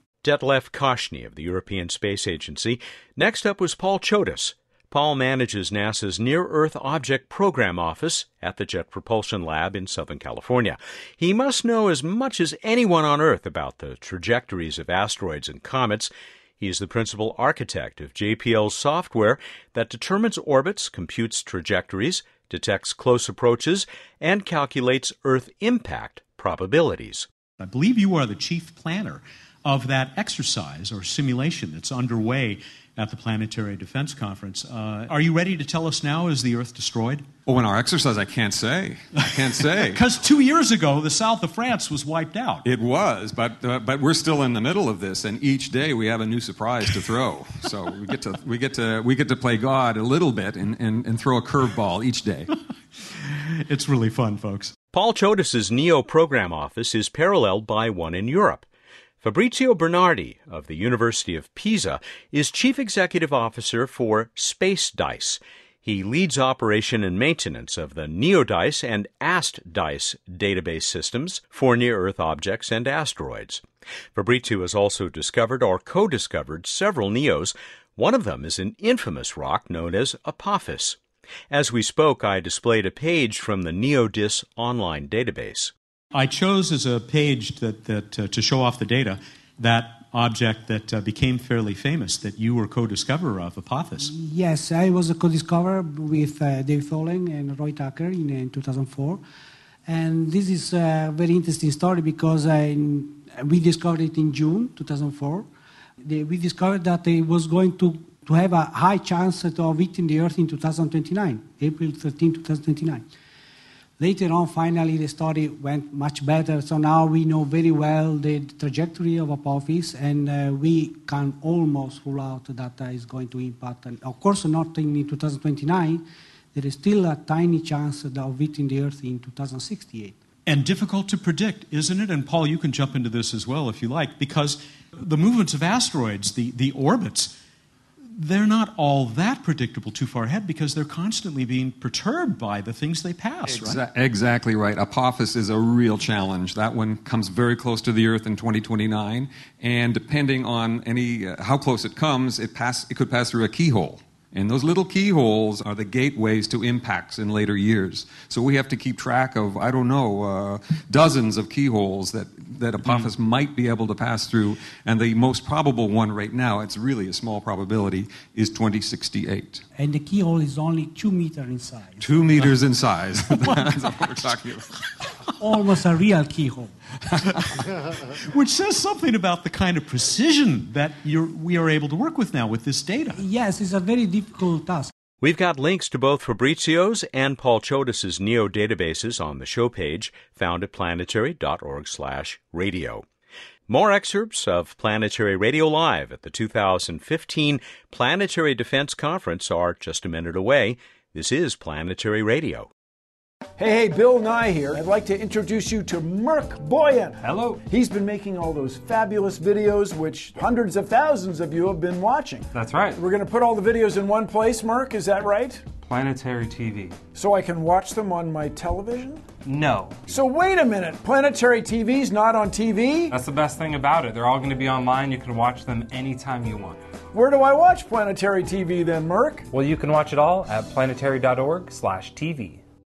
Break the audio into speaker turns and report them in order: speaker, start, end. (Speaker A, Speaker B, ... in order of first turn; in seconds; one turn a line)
Speaker A: 0.2-27.3
Speaker B: 27.6-37.3
Speaker C: 37.5-40.0
Speaker B: 39.2-42.6
Speaker C: 42.6-52.5
Speaker B: 53.6-54.7
Speaker A: 54.9-58.6
Speaker A: 59.2-73.6
Speaker A: 74.1-81.0
Speaker A: 81.5-85.7
Speaker B: 86.1-94.1
Speaker D: 94.0-99.2
Speaker D: 99.9-105.5
Speaker D: 106.0-113.1
Speaker D: 114.0-130.2
Speaker B: 130.4-137.3
Speaker B: 138.1-143.8
Speaker C: 143.4-169.6
Speaker D: 169.8-172.5
Speaker C: 172.0-174.7
Speaker D: 175.4-176.7
Speaker B: 178.3-183.2
Speaker D: 183.2-184.9
Speaker A: 185.2-193.0
Speaker A: 193.7-202.7
Speaker E: 203.6-215.7
Speaker F: 207.2-207.7
Speaker F: 212.5-213.0
Speaker F: 215.7-217.0
Speaker E: 217.1-219.3
Speaker F: 219.4-220.1
Speaker E: 220.1-223.1
Speaker F: 223.1-226.8
Speaker E: 227.1-229.5
Speaker F: 229.5-232.6